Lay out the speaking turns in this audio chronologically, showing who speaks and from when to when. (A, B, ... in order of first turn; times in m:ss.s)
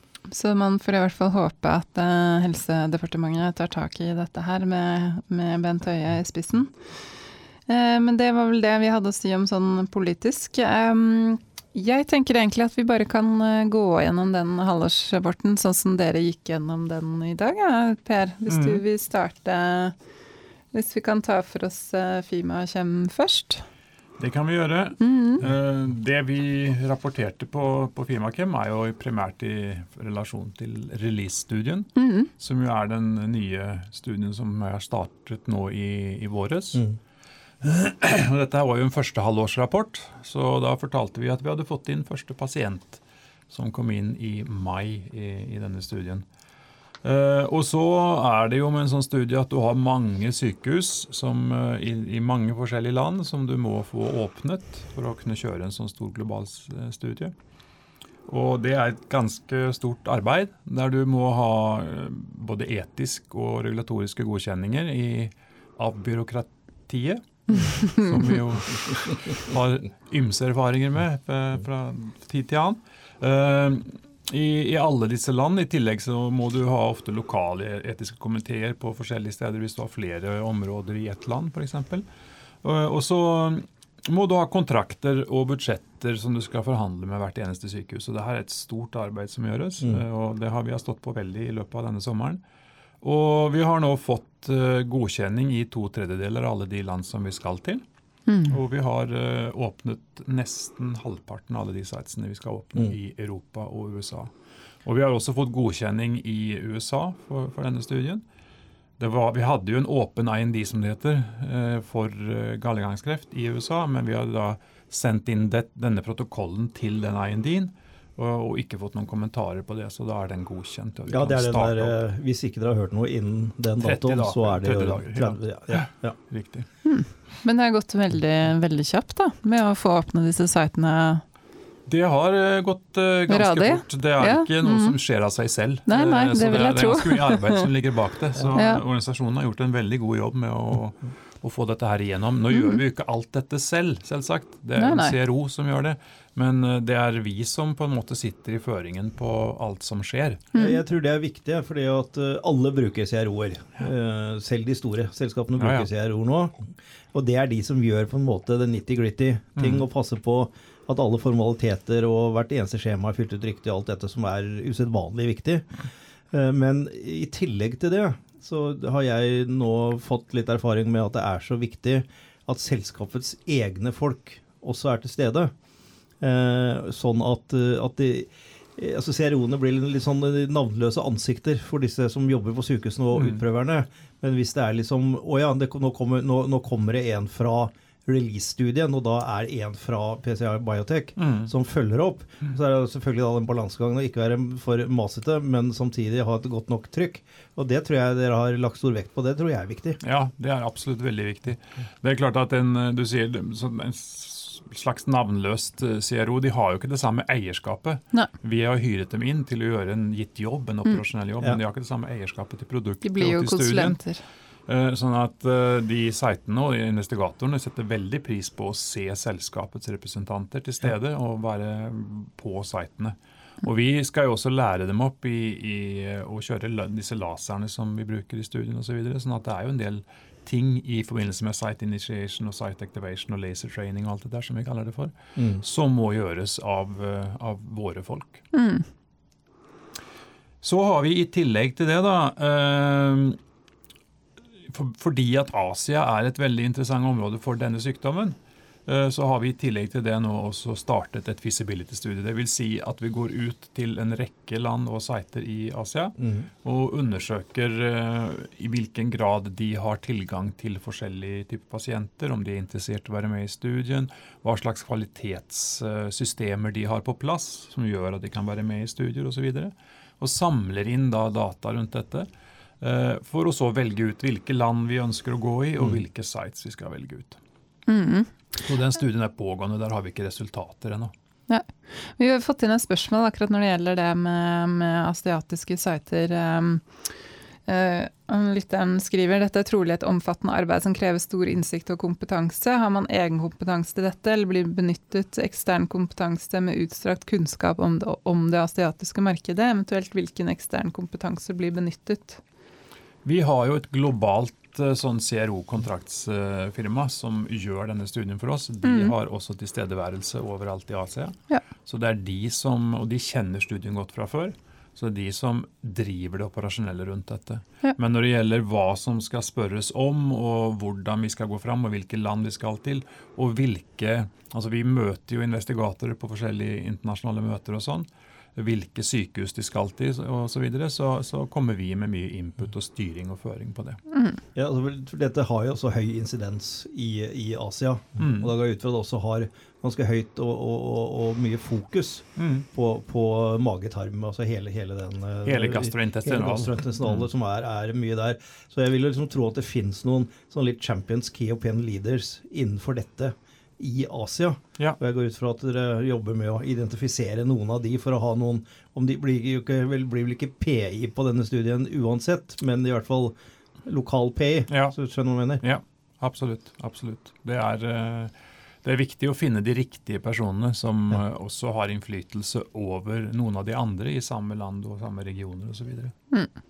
0:00.3-0:06.7 A
0:07.7-0:19.9 A
0:18.5-0:18.8 B
0:20.7-0:23.6 A
0:24.2-0:36.8 B
0:25.0-0:25.4 A
0:32.0-0:32.3 A
0:37.6-0:46.2 B
0:47.0-0:57.3 B
0:58.3-1:22.0 B
1:07.5-1:08.1 A
1:22.6-1:32.4 B
1:33.0-1:37.8 B
1:38.3-1:38.5 A
1:38.5-1:44.3 B
1:44.8-1:48.2 B
1:49.0-2:02.0 B
2:01.1-2:06.2 C
2:03.8-2:06.7 B
2:06.8-2:11.2 A
2:11.9-2:30.4 B
2:13.3-2:15.0 A
2:15.9-2:17.7 A
2:18.5-2:18.8 A
2:22.5-2:22.8 A
2:24.8-2:25.1 A
2:30.5-2:30.8 A
2:30.5-2:55.5 C
2:35.6-2:35.9 B
2:39.6-2:39.8 B
2:56.2-3:20.0 C
3:03.1-3:03.4 B
3:11.2-3:11.5 B
3:20.0-3:34.0 B
3:33.0-3:34.2 A
3:34.7-3:58.4 B
3:55.4-3:55.6 C
3:58.5-3:58.8 A
4:00.6-4:03.4 B
4:04.7-4:32.3 B
4:16.2-4:16.4 C
4:32.8-4:37.4 B
4:37.9-4:38.3 A
4:38.6-4:41.1 B
4:41.5-4:46.8 A
4:47.6-5:02.4 A
5:03.2-5:34.0 B
5:08.8-5:09.1 A
5:34.1-5:34.4 A
5:34.5-6:05.6 C
5:38.2-5:38.5 B
5:42.4-5:42.6 B
5:45.4-5:47.3 B
6:04.7-6:04.9 B
6:05.6-6:08.3 B
6:08.8-6:16.1 B